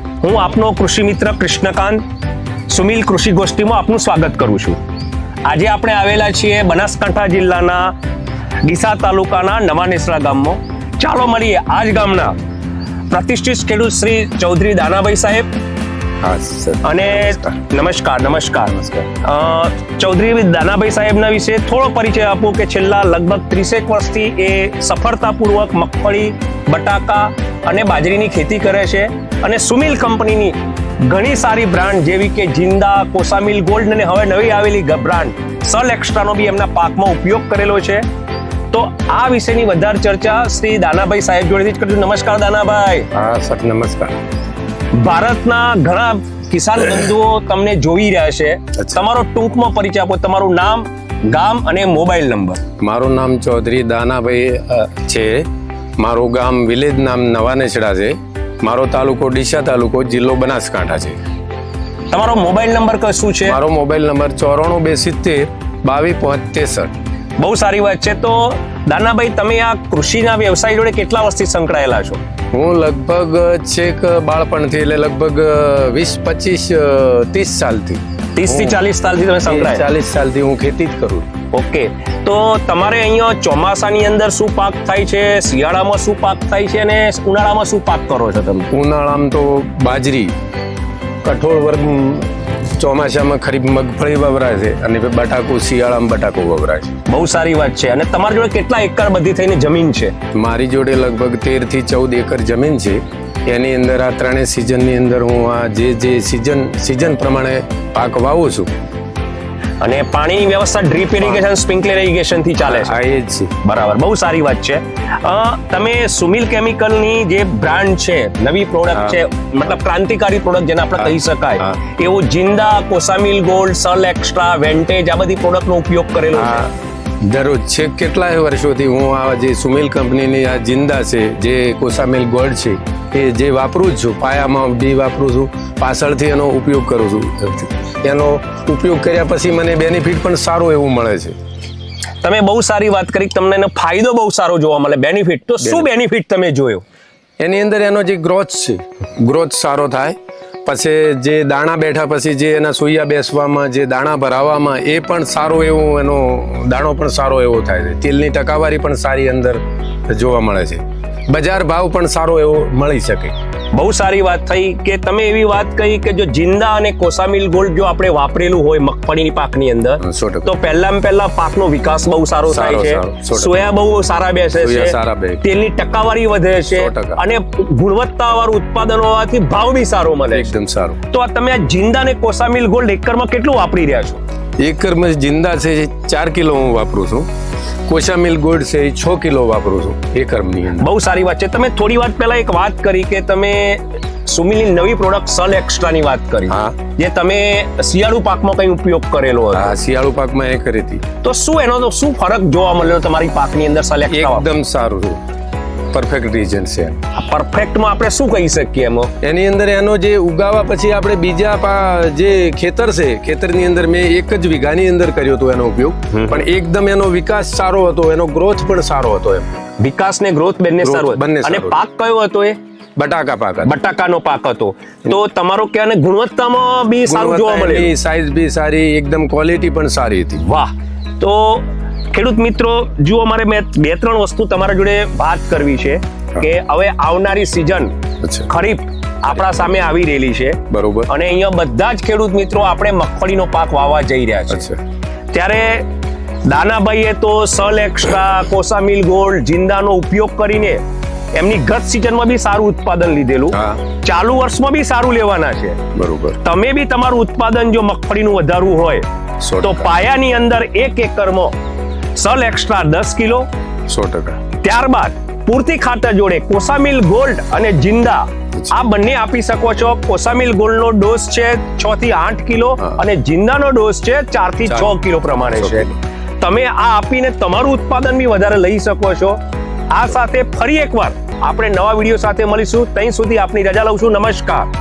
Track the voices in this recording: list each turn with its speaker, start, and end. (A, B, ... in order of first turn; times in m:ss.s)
0:00.2-0:02.0 A
0:02.7-0:04.8 A
0:05.4-0:07.9 A
0:08.6-0:12.4 A
0:13.1-0:15.5 A
0:16.2-0:17.6 B
0:16.8-0:38.0 A
0:18.7-0:19.1 B
0:38.7-0:43.1 A
0:43.1-0:44.2 B
0:44.9-0:52.6 A
0:52.8-1:01.2 B
1:02.1-1:03.6 A
1:03.4-1:06.9 B
1:07.4-1:12.2 A
1:12.5-1:18.8 B
1:18.3-1:19.9 A
1:19.4-1:21.3 B
1:21.5-1:28.7 A
1:28.7-1:30.3 B
1:31.2-1:36.9 B
1:37.1-1:40.1 A
1:40.3-1:48.7 B
1:49.8-1:52.9 A
1:52.6-1:53.5 B
1:53.6-2:06.6 A
2:06.3-2:06.7 B
2:07.2-2:21.4 B
2:22.2-2:26.8 A
2:25.6-2:25.8 B
2:27.4-2:43.3 B
2:43.7-3:00.5 A
2:50.0-2:50.5 B
2:52.5-2:53.7 B
2:54.6-2:55.4 B
2:56.7-2:57.2 B
3:00.3-3:01.0 B
3:01.1-3:04.2 A
3:04.6-3:07.3 B
3:07.9-3:10.9 B
3:10.8-3:19.7 A
3:16.5-3:16.8 B
3:19.5-3:21.0 B
3:21.2-3:24.5 A
3:24.1-3:25.2 B
3:25.9-3:27.0 B
3:27.1-3:29.1 A
3:29.2-3:39.6 B
3:36.1-3:36.4 A
3:39.8-3:42.6 A
3:40.8-3:41.8 B
3:43.0-3:43.7 B
3:43.6-3:47.9 A
3:47.0-3:50.4 B
3:50.4-3:57.9 A
3:58.2-3:58.5 B
3:58.5-4:04.7 A
4:00.7-4:01.1 B
4:04.5-4:04.8 B
4:05.3-4:05.9 A
4:06.4-4:10.8 A
4:11.3-4:15.8 A
4:13.5-4:13.8 B
4:15.9-4:16.4 B
4:16.4-4:19.0 A
4:19.4-4:19.9 B
4:19.6-4:21.5 A
4:22.2-4:23.5 A
4:23.9-4:24.4 B
4:24.6-4:39.4 A
4:34.6-4:34.9 B
4:35.5-4:36.0 B
4:39.9-4:44.7 A